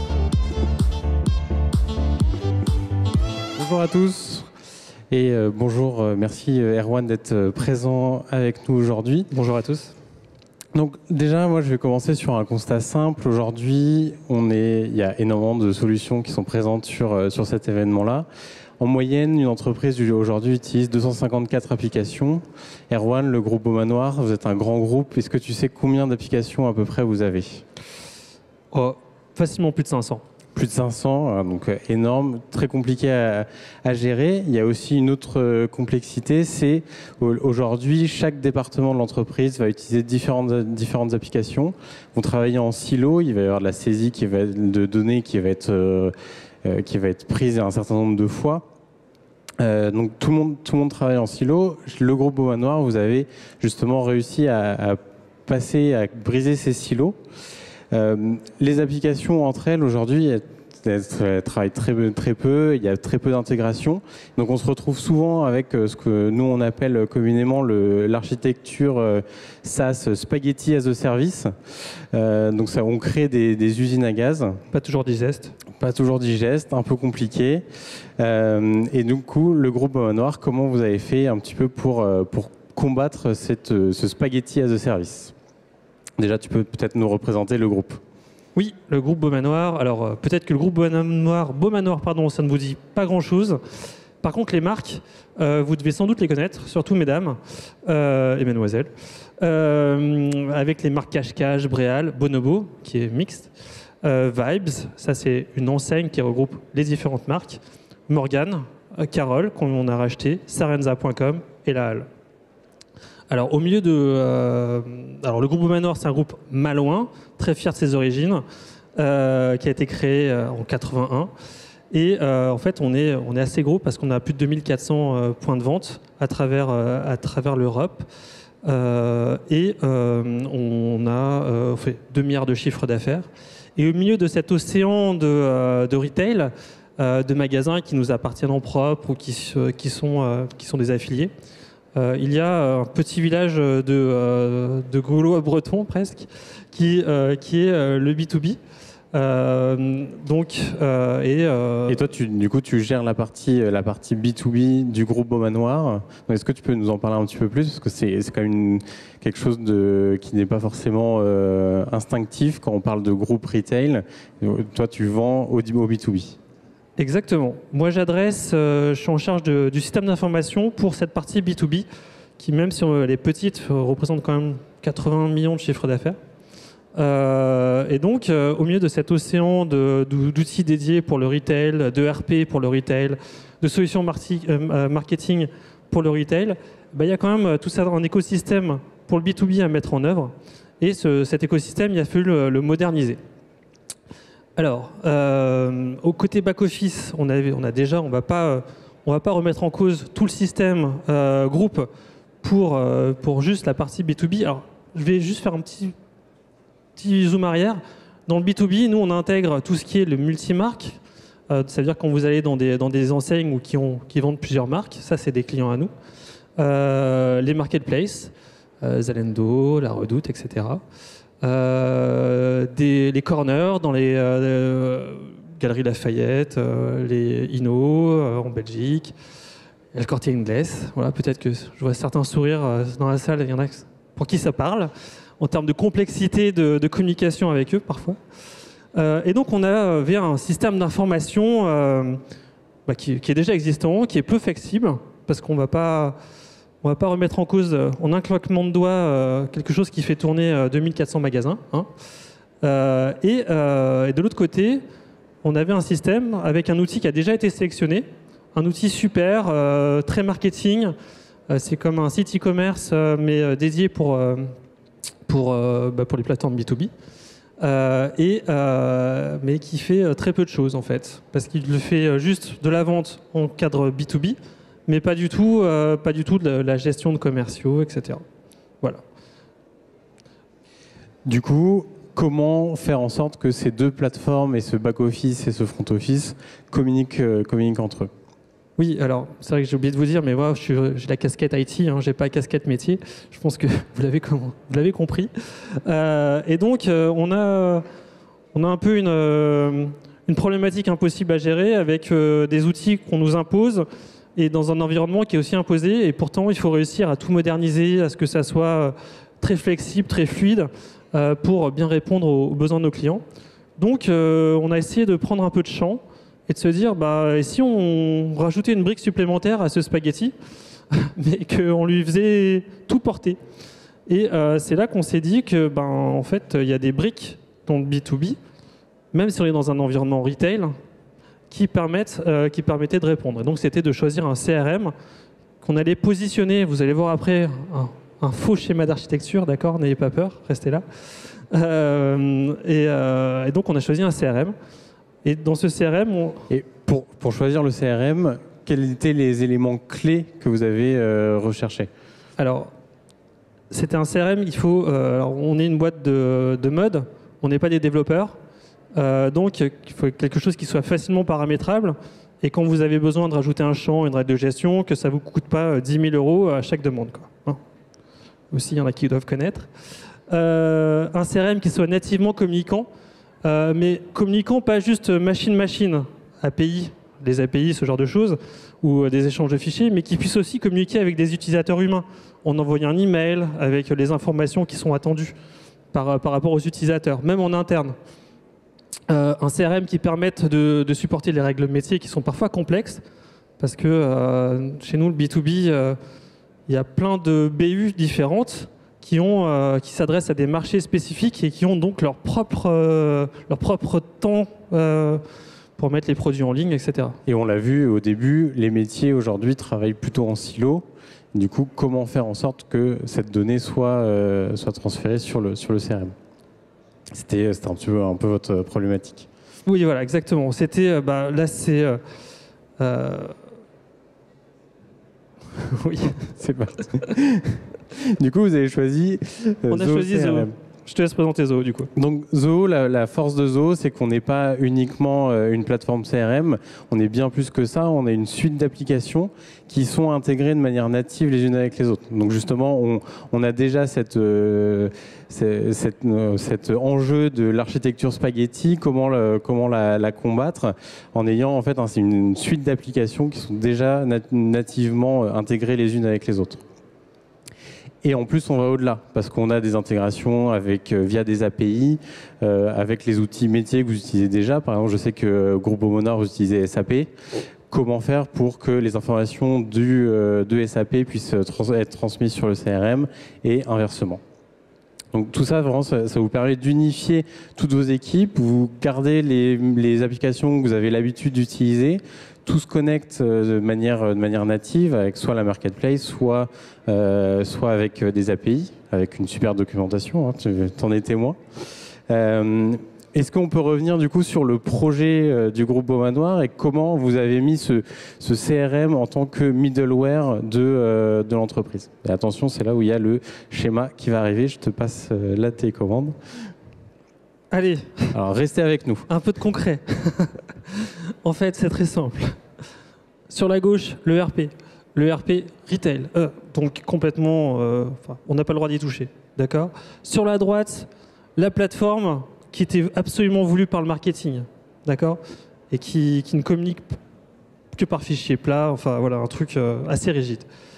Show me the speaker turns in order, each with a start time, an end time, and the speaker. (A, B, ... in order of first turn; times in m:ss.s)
0:03.5-0:04.5 A
0:05.1-0:09.3 A
0:09.3-0:09.9 B
0:10.7-0:18.2 A
0:18.8-0:27.6 A
0:28.7-0:30.2 B
0:30.6-0:46.1 A
0:46.6-0:48.6 A
0:49.6-0:57.2 A
0:57.9-1:11.5 A
1:12.1-1:14.6 A
1:14.7-1:15.6 B
1:15.8-1:17.6 A
1:18.2-1:25.3 A
1:26.2-1:28.0 A
1:28.5-1:33.6 B
1:34.2-1:43.5 B
1:44.0-1:52.1 B
1:53.3-1:58.4 B
1:59.0-2:01.3 B
2:01.9-2:08.0 B
2:08.6-2:21.3 B
2:21.9-2:28.6 B
2:29.1-2:32.0 B
2:31.9-2:46.4 A
2:47.0-2:51.8 B
2:52.4-2:56.2 B
2:56.9-3:13.2 B
3:14.6-3:21.9 B
3:22.4-3:25.9 B
3:27.0-3:31.0 B
3:31.5-3:35.9 B
3:36.6-3:40.8 B
3:41.4-3:49.1 B
3:49.9-3:58.2 B
3:58.9-4:02.2 B
4:02.8-4:06.2 B
4:06.8-4:11.9 B
4:12.6-4:14.8 B
4:15.4-4:20.9 B
4:21.5-4:24.5 B
4:25.3-4:26.9 B
4:27.6-4:34.4 B
4:34.9-4:38.2 B
4:41.2-4:48.1 A
4:48.8-4:55.3 B
4:55.8-4:57.8 B
4:58.5-5:13.2 B
5:13.8-5:20.3 B
5:20.9-5:23.4 B
5:24.1-5:28.4 B
5:29.1-5:30.7 B
5:31.5-5:34.9 B
5:35.6-5:44.5 B
5:45.2-5:46.4 B
5:46.5-5:51.9 A
5:52.4-5:52.7 B
5:53.7-5:58.3 B
5:58.9-6:07.6 B
6:08.5-6:09.7 B
6:10.3-6:12.9 B
6:13.4-6:25.3 B
6:25.9-6:27.9 B
6:29.1-6:33.0 B
6:33.6-6:36.0 B
6:36.7-6:45.2 B
6:45.8-6:47.2 B
6:47.2-6:56.1 A
6:57.1-6:59.3 A
6:59.6-7:02.0 B
7:02.8-7:03.3 B
7:05.6-7:06.2 B
7:06.3-7:10.5 A
7:09.7-7:11.9 B
7:12.0-7:36.6 A
7:38.0-7:47.1 A
7:47.7-7:54.2 A
7:55.1-8:11.4 A
8:12.1-8:26.1 A
8:27.5-8:28.1 B
8:28.1-8:29.1 A
8:29.1-8:32.3 B
8:33.3-8:46.8 B
8:47.7-8:50.4 B